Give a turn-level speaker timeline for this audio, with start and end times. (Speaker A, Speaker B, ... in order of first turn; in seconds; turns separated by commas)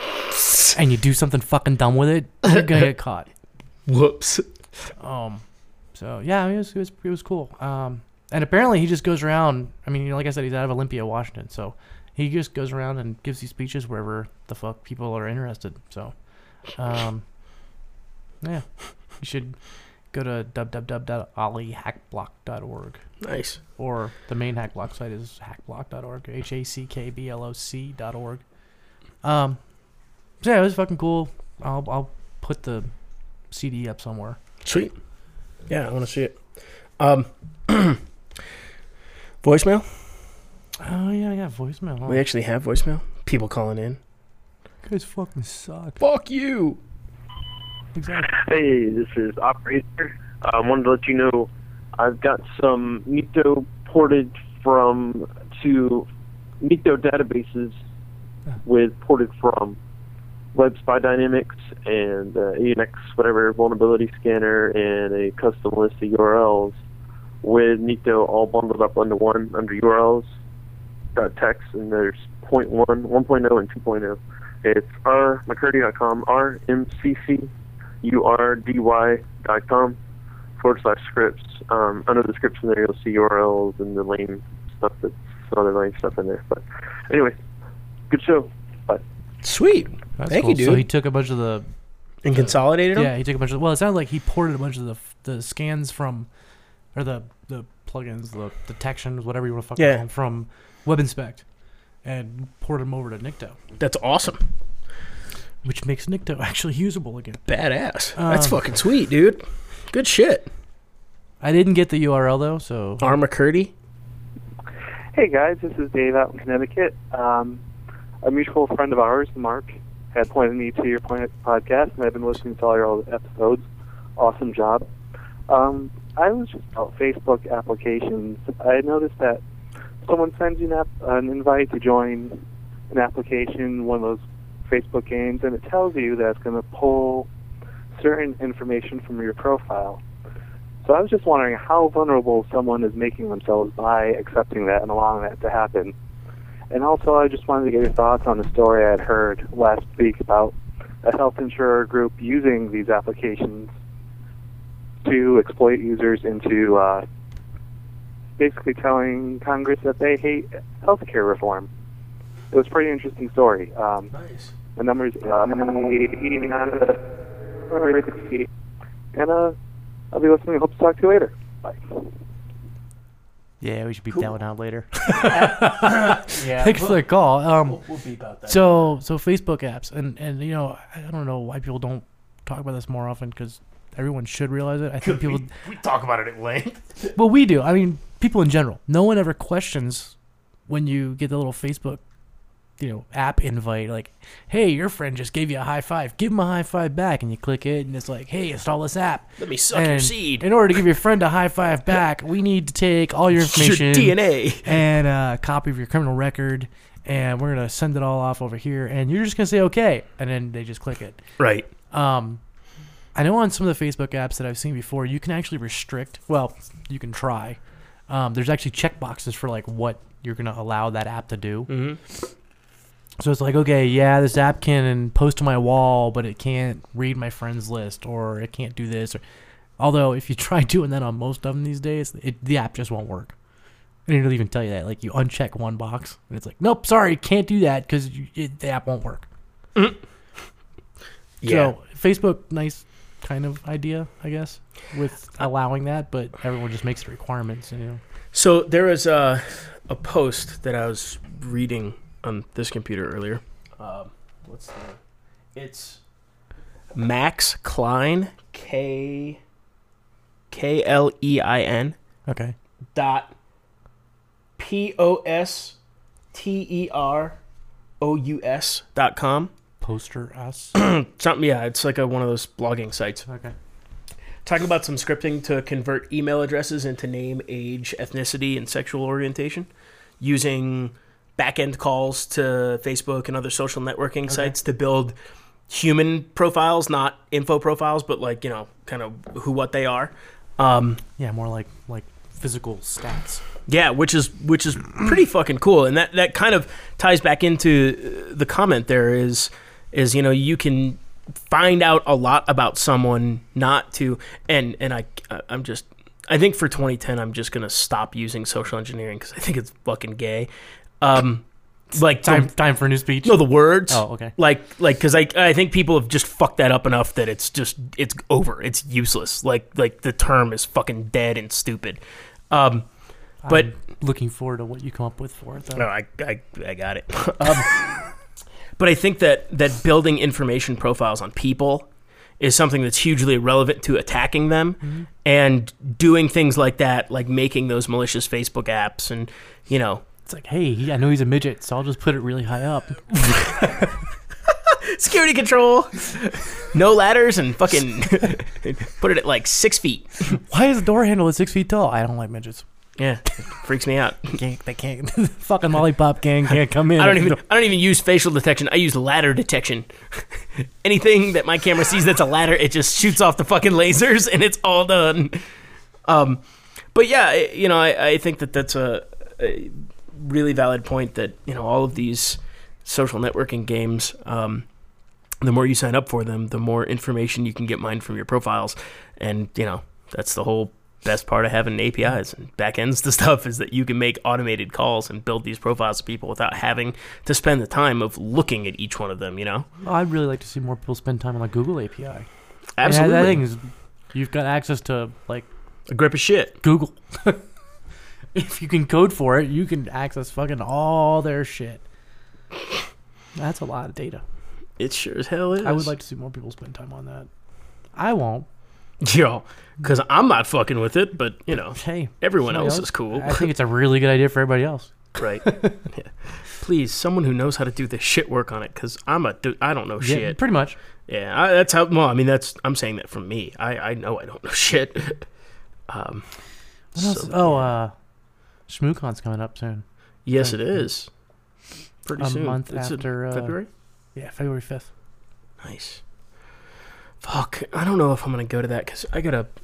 Speaker A: 0.3-0.7, Speaker B: 0.7-3.3, Speaker A: 3.9-4.5, Speaker B: 5.0-16.1, Speaker B: 16.8-17.2, Speaker B: 18.4-18.7, Speaker B: 19.2-19.6, Speaker B: 20.1-23.0, Speaker A: 23.2-23.6, Speaker B: 23.8-28.4, Speaker B: 29.2-29.6, Speaker B: 30.4-32.9, Speaker B: 33.5-34.4, Speaker A: 34.6-34.9, Speaker A: 35.7-36.4, Speaker A: 37.0-38.0, Speaker A: 39.4-39.9, Speaker B: 40.8-42.2, Speaker A: 42.0-44.0, Speaker B: 44.8-46.0, Speaker A: 46.0-46.8, Speaker B: 47.9-48.3, Speaker C: 48.3-56.0, Speaker C: 56.6-57.8, Speaker C: 58.6-59.8, Speaker C: 60.5-66.8, Speaker C: 67.4-70.3, Speaker C: 71.1-77.5, Speaker C: 78.0-80.0, Speaker C: 80.6-87.3, Speaker C: 88.1-89.0, Speaker A: 89.4-90.8, Speaker B: 90.2-91.7, Speaker A: 92.2-93.1, Speaker B: 92.3-96.3, Speaker B: 96.9-101.4, Speaker A: 99.8-100.0, Speaker B: 102.0-103.5, Speaker A: 103.8-104.4, Speaker B: 105.6-107.4, Speaker A: 107.5-110.5, Speaker B: 108.1-108.7, Speaker B: 111.4-113.1, Speaker A: 113.0-113.7, Speaker D: 115.1-117.6, Speaker D: 118.2-123.6, Speaker D: 124.2-124.8, Speaker D: 125.5-129.4, Speaker D: 130.0-132.4, Speaker D: 132.9-137.3, Speaker D: 137.9-140.0, Speaker D: 140.8-145.9, Speaker D: 146.7-153.7, Speaker D: 155.0-157.0, Speaker D: 158.4-161.7, Speaker D: 162.5-164.1, Speaker A: 164.1-164.5, Speaker D: 164.8-167.1, Speaker D: 167.7-168.5, Speaker D: 169.1-169.6, Speaker D: 170.1-172.0, Speaker B: 173.6-177.8, Speaker A: 175.0-177.0, Speaker A: 177.7-178.8, Speaker B: 178.5-185.5, Speaker A: 185.0-187.1, Speaker B: 187.1-190.1, Speaker B: 190.7-192.0, Speaker B: 192.8-211.2, Speaker A: 199.4-200.5, Speaker A: 203.3-204.8, Speaker A: 211.4-211.7, Speaker B: 211.9-212.4, Speaker B: 213.1-221.7, Speaker A: 221.7-222.0, Speaker B: 223.2-229.2, Speaker B: 229.8-233.3, Speaker B: 234.1-239.2, Speaker A: 241.4-241.7, Speaker B: 241.4-248.0, Speaker A: 248.3-255.0, Speaker A: 255.5-256.0, Speaker A: 256.9-259.4, Speaker A: 260.5-261.9, Speaker B: 262.3-262.5, Speaker A: 262.9-263.3, Speaker A: 264.6-265.8, Speaker A: 266.3-267.4, Speaker A: 268.0-269.5, Speaker B: 269.8-270.7, Speaker A: 270.7-273.3, Speaker B: 273.2-273.5, Speaker A: 274.4-279.7, Speaker A: 280.2-285.1, Speaker B: 284.3-284.5, Speaker A: 285.7-291.0, Speaker B: 291.2-293.4, Speaker A: 293.7-310.5, Speaker A: 311.0-312.5, Speaker B: 311.9-314.3, Speaker A: 313.2-322.9, Speaker B: 323.4-325.9, Speaker A: 325.7-328.0, Speaker A: 328.8-331.9, Speaker A: 332.4-340.0, Speaker B: 340.2-343.9, Speaker A: 344.7-350.4, Speaker B: 350.3-352.6, Speaker A: 353.0-354.4, Speaker B: 354.3-357.4, Speaker A: 356.9-365.4, Speaker A: 366.1-366.4, Speaker A: 366.9-374.6, Speaker A: 375.4-389.7, Speaker B: 389.8-392.3, Speaker A: 392.8-393.4, Speaker B: 392.8-395.5, Speaker A: 395.9-396.6, Speaker B: 396.6-397.4, Speaker B: 398.3-401.8, Speaker B: 403.4-404.2, Speaker A: 404.8-405.9, Speaker B: 405.6-407.3, Speaker B: 407.9-408.5, Speaker A: 409.0-413.5, Speaker B: 411.7-415.8, Speaker A: 415.1-420.4, Speaker B: 420.0-420.8, Speaker A: 421.1-425.2, Speaker A: 425.9-426.2, Speaker A: 426.9-427.7, Speaker B: 426.9-427.9, Speaker B: 428.7-429.8, Speaker A: 430.2-431.1, Speaker B: 430.4-430.9, Speaker A: 432.0-433.7, Speaker B: 432.2-433.6, Speaker B: 434.1-434.9, Speaker A: 435.6-436.0, Speaker A: 437.2-439.5